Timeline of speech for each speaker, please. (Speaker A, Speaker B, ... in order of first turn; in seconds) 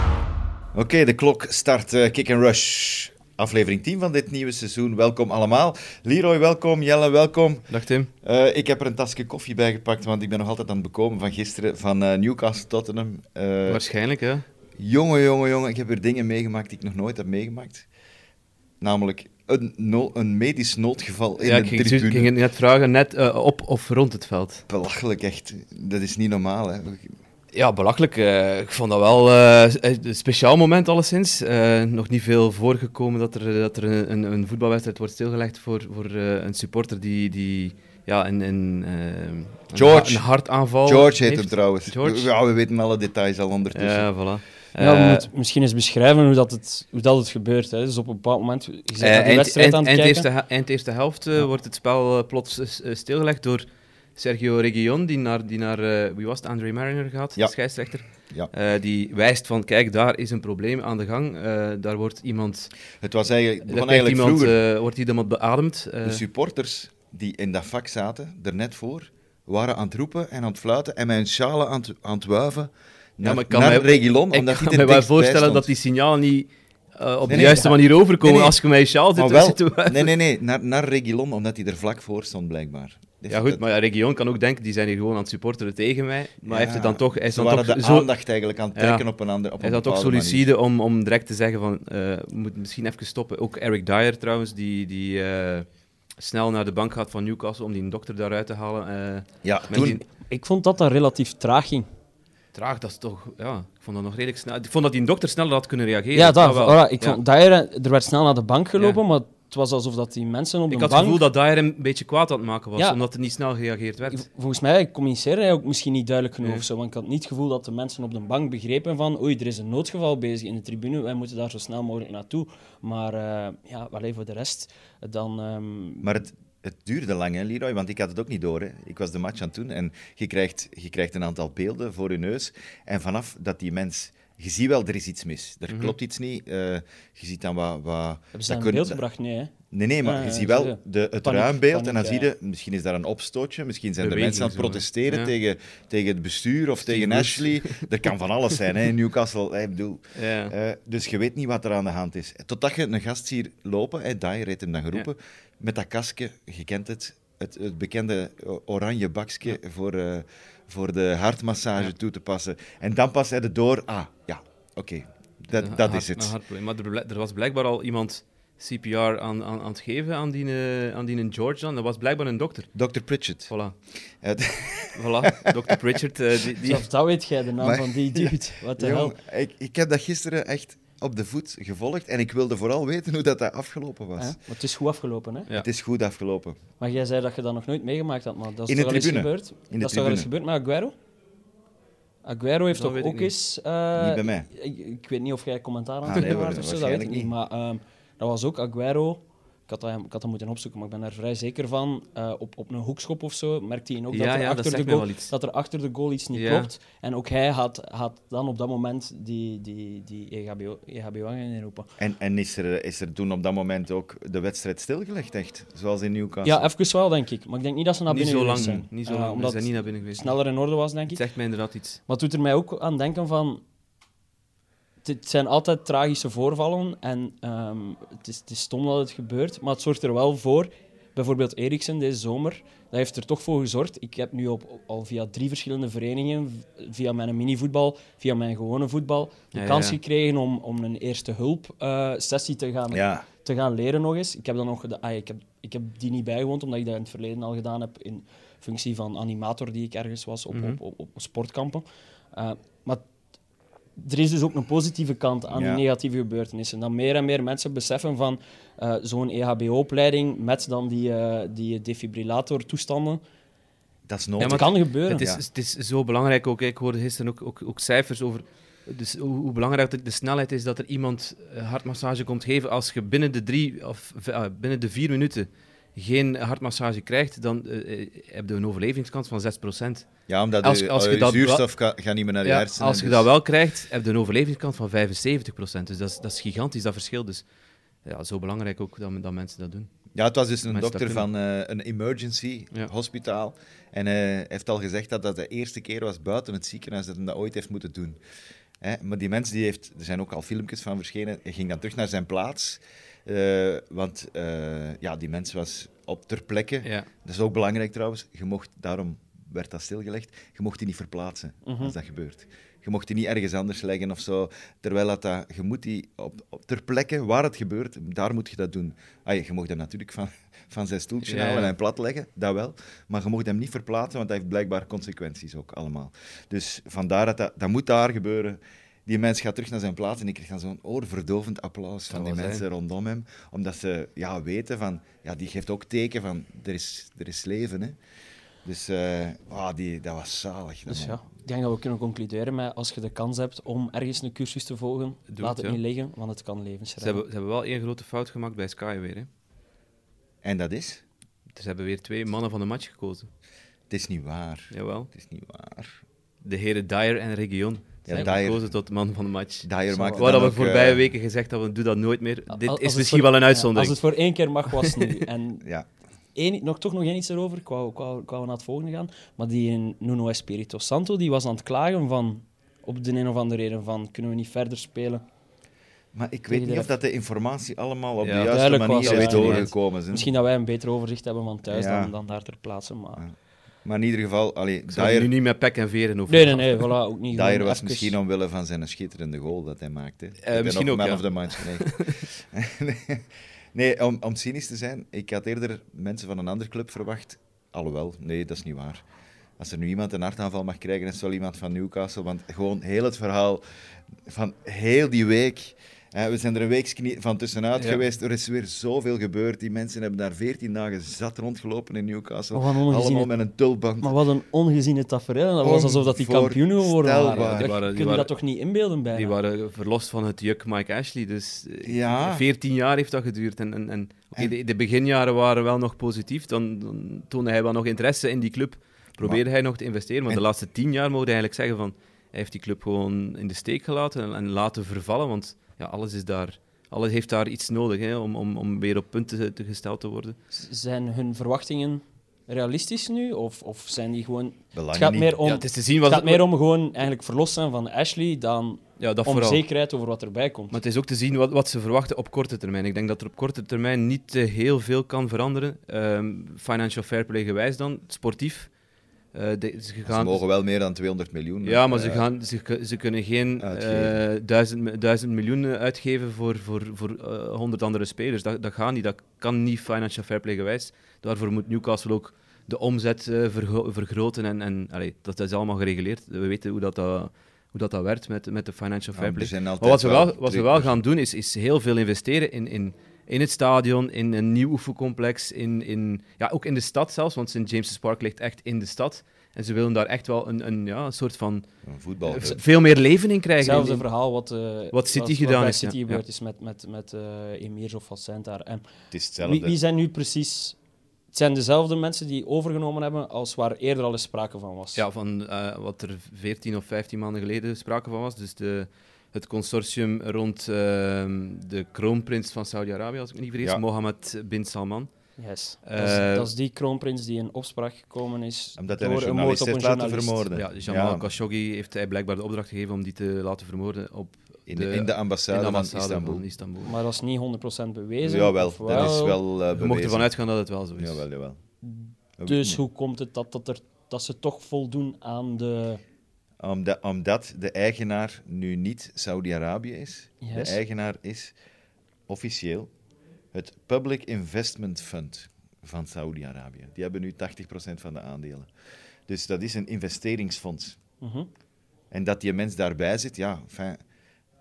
Speaker A: 0.7-13.8, 14.8-17.9, 18.8-22.3, 24.7-27.2, 39.7-44.1, 58.1-58.5, 63.0-64.6, 66.0-75.7, 77.3-78.6, 79.2-83.6, 86.5-90.5, 99.4-100.0, 126.0-139.0, 139.7-166.3, 172.8-175.8, 177.6-184.4, 185.5-186.6, 188.7-190.3, 193.9-194.5, 196.1-197.3, 212.0-216.7, 218.6-218.8, 242.9-243.3, 255.5-255.8, 264.1-265.4, 280.3-283.3, 290.1-298.2, 298.8-338.0, 338.6-341.2, 350.4-351.0, 353.9-356.0, 358.1-358.8, 359.6-361.1, 376.1-380.3, 381.7-382.1, 383.2-385.3, 387.3-399.1, 399.6-414.2, 415.6-417.8, 421.8-422.4, 444.7-445.4, 460.1-462.2, 463.6-464.2, 479.1-480.9, 491.9-492.6, 499.1-499.8, 518.8-521.3, 524.7-526.5, 528.2-530.4, 531.0-531.6, 532.4-532.8, 536.6-541.5, 542.3-542.9, 543.5-548.7, 549.3-551.0, 552.1-554.0
Speaker B: 7.7-8.1, 13.7-14.5, 21.4-24.6, 27.5-42.3, 43.7-45.3, 49.0-53.6, 54.2-62.7, 63.7-66.2, 73.2-80.1, 83.3-88.1, 88.8-89.1, 89.6-100.0, 102.5-107.2, 110.7-114.2, 135.7-135.9, 144.0-145.3, 146.8-147.9, 150.2-150.5, 165.5-172.7, 173.5-173.8, 174.9-176.9, 192.7-193.3, 204.1-205.3, 206.3-206.7, 218.1-220.4, 221.1-222.0, 239.5-240.0, 250.5-250.8, 264.4-281.7, 282.4-287.4, 288.0-289.9, 290.7-291.2, 306.8-307.1, 321.2-321.7, 332.1-332.6, 345.3-345.8, 347.0-349.3, 351.6-353.3, 354.7-355.1, 356.4-364.0, 364.8-365.1, 378.2-379.7, 384.9-386.9, 390.4-392.3, 417.3-418.3, 419.1-440.4, 445.4-446.4, 449.0-449.6, 450.7-458.7, 459.3-460.4, 461.6-491.7, 492.2-494.1, 494.9-496.2, 504.9-516.5, 520.5-527.0, 528.9-531.2
Speaker C: 44.8-50.3, 100.2-101.9, 106.1-111.2, 114.1-126.2, 138.3-142.3, 176.6-179.2, 184.2-185.5, 186.8-190.9, 192.2-211.9, 216.4-221.2, 222.1-223.6, 225.0-253.1, 254.0-263.2, 264.4-265.3, 311.6-311.9, 340.9-347.2, 359.9-360.2, 362.5-365.6, 366.4-375.2, 376.5-376.9, 378.5-383.2, 386.3-388.1, 412.5-413.3, 414.0-419.4, 440.5-450.8, 493.6-498.9, 499.4-500.8, 501.3-505.0, 515.4-520.5, 526.8-529.4, 531.8-536.0, 540.4-540.8, 551.2-551.5